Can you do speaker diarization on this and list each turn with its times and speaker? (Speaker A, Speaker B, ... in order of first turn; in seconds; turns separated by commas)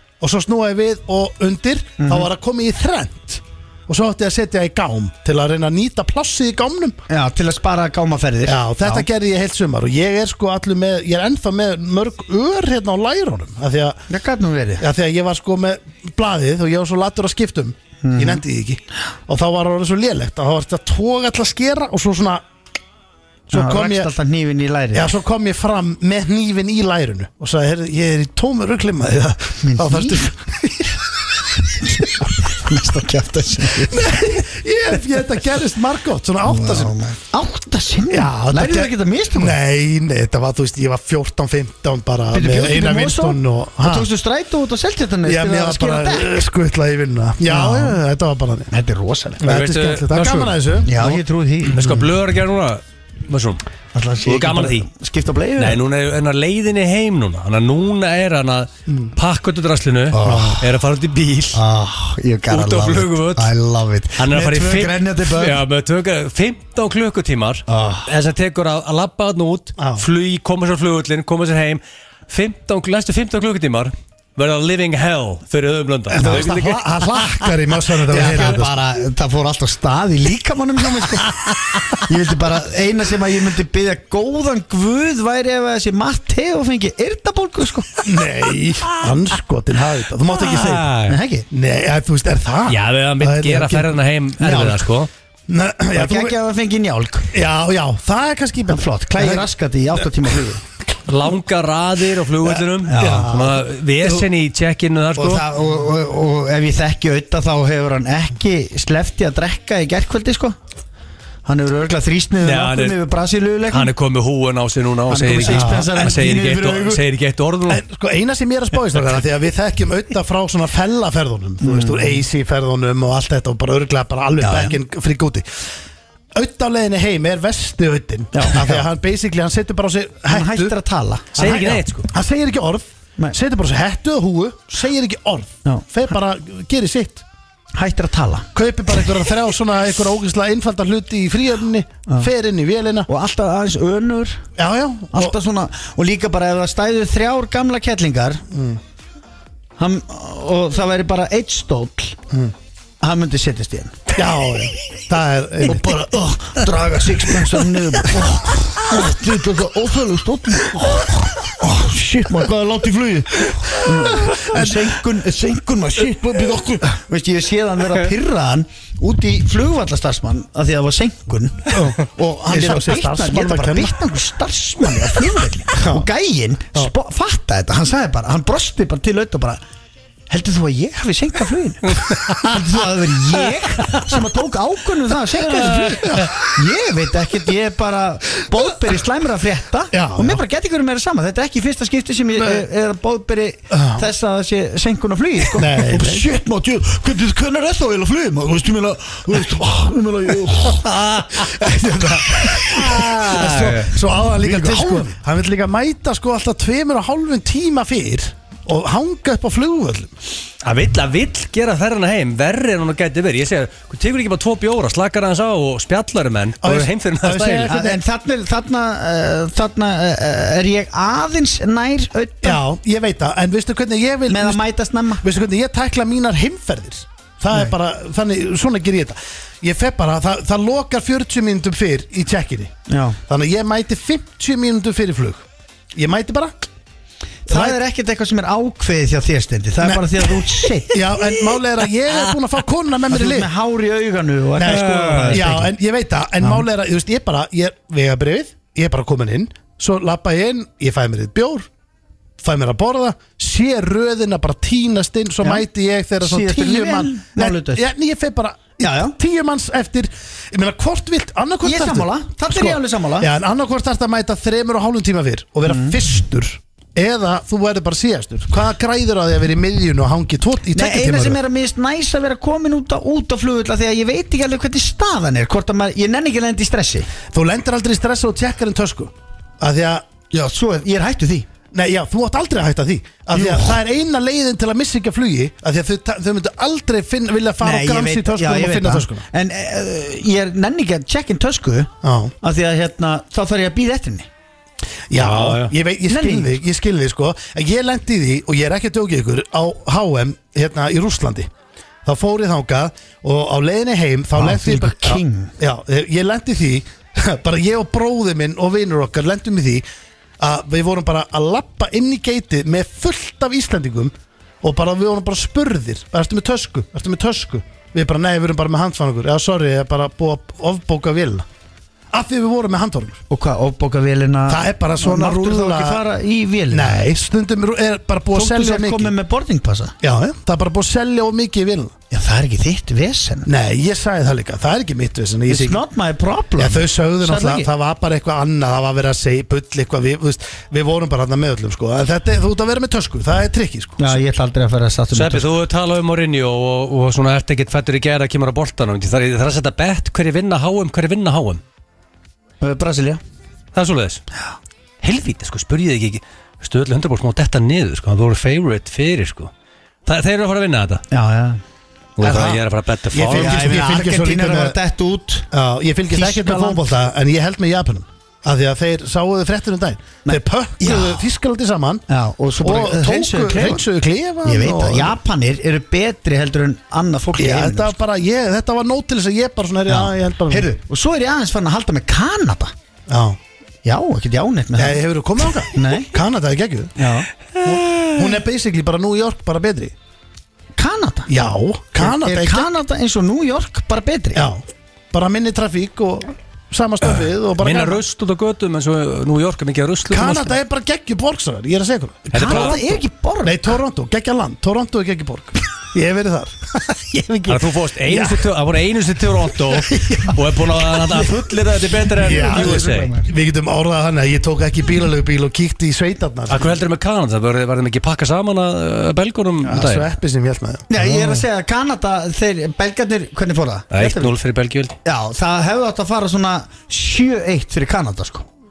Speaker A: 0.2-7.0, Speaker B: 2.0-2.3, Speaker B: 7.1-9.1, Speaker A: 8.4-14.0, Speaker B: 14.1-14.8, Speaker A: 14.8-22.4, Speaker B: 18.0-18.4, Speaker A: 23.5-24.1, Speaker B: 23.5-25.1, Speaker A: 24.9-31.0, Speaker B: 29.6-30.2, Speaker B: 31.8-34.0, Speaker A: 33.7-36.9, Speaker B: 36.4-39.5, Speaker A: 38.1-44.1, Speaker B: 42.3-46.4, Speaker A: 45.2-48.7, Speaker B: 47.4-48.0, Speaker B: 48.7-49.4, Speaker A: 49.4-50.9, Speaker C: 49.4-53.6, Speaker B: 50.8-51.9, Speaker A: 51.8-52.0, Speaker B: 53.9-55.8, Speaker C: 54.2-54.9, Speaker C: 55.6-61.6, Speaker B: 60.1-60.6, Speaker A: 60.2-60.6, Speaker B: 61.5-65.6, Speaker C: 62.5-63.5, Speaker C: 64.2-77.5, Speaker B: 67.7-68.1, Speaker A: 69.8-70.0, Speaker A: 76.1-78.7, Speaker B: 78.1-81.3, Speaker C: 78.1-78.5, Speaker B: 82.0-88.0, Speaker A: 88.0-90.9, Speaker C: 90.3-91.2, Speaker B: 91.1-91.5, Speaker A: 91.5-94.0, Speaker C: 92.7-95.1, Speaker B: 94.4-94.8, Speaker A: 95.5-96.3, Speaker B: 95.9-97.3, Speaker A: 97.3-100.3, Speaker B: 98.7-100.6, Speaker C: 101.0-105.4, Speaker B: 102.8-103.3, Speaker A: 103.0-104.2, Speaker B: 105.2-110.6, Speaker B: 111.5-113.9, Speaker C: 112.4-113.0, Speaker C: 113.7-117.8, Speaker B: 115.1-117.0, Speaker A: 115.4-115.9, Speaker A: 117.7-125.7, Speaker B: 121.6-122.2, Speaker B: 124.4-124.8, Speaker A: 126.3-130.7, Speaker B: 128.3-128.8, Speaker B: 130.3-131.8, Speaker C: 131.3-132.1, Speaker A: 131.4-137.2, Speaker B: 137.7-138.5, Speaker A: 138.5-143.1, Speaker B: 143.1-144.4, Speaker A: 144.6-145.4, Speaker B: 145.1-148.4, Speaker A: 148.5-148.8, Speaker B: 149.8-152.2, Speaker B: 153.0-154.1, Speaker A: 154.1-156.1, Speaker B: 155.7-179.6, Speaker A: 163.5-165.0, Speaker A: 171.7-173.9, Speaker A: 175.7-176.1, Speaker B: 180.3-200.8, Speaker C: 185.6-186.2, Speaker A: 185.7-186.3, Speaker A: 189.9-190.4, Speaker A: 192.4-192.6, Speaker A: 193.7-194.1, Speaker A: 195.5-196.3, Speaker C: 200.8-201.5, Speaker A: 201.3-210.1, Speaker B: 201.7-202.3, Speaker C: 202.5-203.9, Speaker B: 204.4-205.1, Speaker C: 210.6-217.7, Speaker A: 216.6-218.0, Speaker B: 217.7-222.6, Speaker A: 222.4-224.6, Speaker B: 224.3-225.2, Speaker A: 225.2-232.7, Speaker B: 232.9-233.2, Speaker A: 233.3-236.6, Speaker B: 237.5-240.9, Speaker A: 237.5-237.8, Speaker A: 239.8-240.2, Speaker A: 240.9-243.5, Speaker B: 243.1-245.7, Speaker A: 244.6-251.7, Speaker C: 244.6-245.5, Speaker A: 252.4-271.4, Speaker B: 256.2-257.8, Speaker B: 258.8-259.1, Speaker B: 261.6-263.3, Speaker B: 265.7-265.9, Speaker B: 270.7-277.1, Speaker A: 277.3-280.0, Speaker B: 280.3-281.5, Speaker A: 281.7-289.2, Speaker B: 283.3-283.8, Speaker B: 287.6-291.9, Speaker A: 292.0-292.3, Speaker B: 292.4-294.3, Speaker A: 295.1-301.5, Speaker C: 295.2-295.7, Speaker B: 296.1-296.5, Speaker A: 302.0-309.8, Speaker B: 304.4-305.5, Speaker A: 310.4-321.4, Speaker A: 322.1-323.2, Speaker B: 323.3-327.1, Speaker A: 324.5-326.0, Speaker A: 326.7-329.1, Speaker B: 328.3-329.9, Speaker A: 330.0-331.9, Speaker B: 332.1-333.5, Speaker A: 333.4-335.8, Speaker B: 335.5-337.7, Speaker A: 336.6-344.2, Speaker B: 344.0-345.5, Speaker C: 345.1-351.6, Speaker B: 352.6-353.2, Speaker C: 353.7-354.2, Speaker C: 355.0-359.5, Speaker C: 360.1-361.0, Speaker B: 361.1-361.6, Speaker C: 362.2-363.8, Speaker A: 362.2-362.6, Speaker A: 363.1-364.8, Speaker B: 363.3-365.5, Speaker A: 365.5-372.0, Speaker B: 366.1-366.9, Speaker B: 370.2-371.2, Speaker B: 372.1-373.8, Speaker A: 372.6-375.2, Speaker B: 374.4-377.9, Speaker A: 377.4-380.7, Speaker B: 379.9-382.7, Speaker A: 383.1-383.4, Speaker B: 383.8-385.0, Speaker A: 384.8-386.9, Speaker B: 385.7-386.1, Speaker B: 387.0-387.3, Speaker C: 387.6-388.3, Speaker A: 387.6-389.9, Speaker B: 390.8-391.3, Speaker A: 391.3-392.7, Speaker B: 392.0-394.4, Speaker A: 394.3-398.0, Speaker C: 397.6-400.6, Speaker A: 400.1-402.8, Speaker C: 402.3-403.0, Speaker B: 402.3-403.7, Speaker A: 403.4-408.5, Speaker C: 407.5-413.1, Speaker A: 409.6-410.3, Speaker A: 412.2-416.7, Speaker B: 412.2-413.3, Speaker C: 416.5-420.1, Speaker A: 419.6-421.0, Speaker B: 420.9-424.3, Speaker C: 421.0-421.4, Speaker C: 423.9-424.9, Speaker B: 425.0-428.5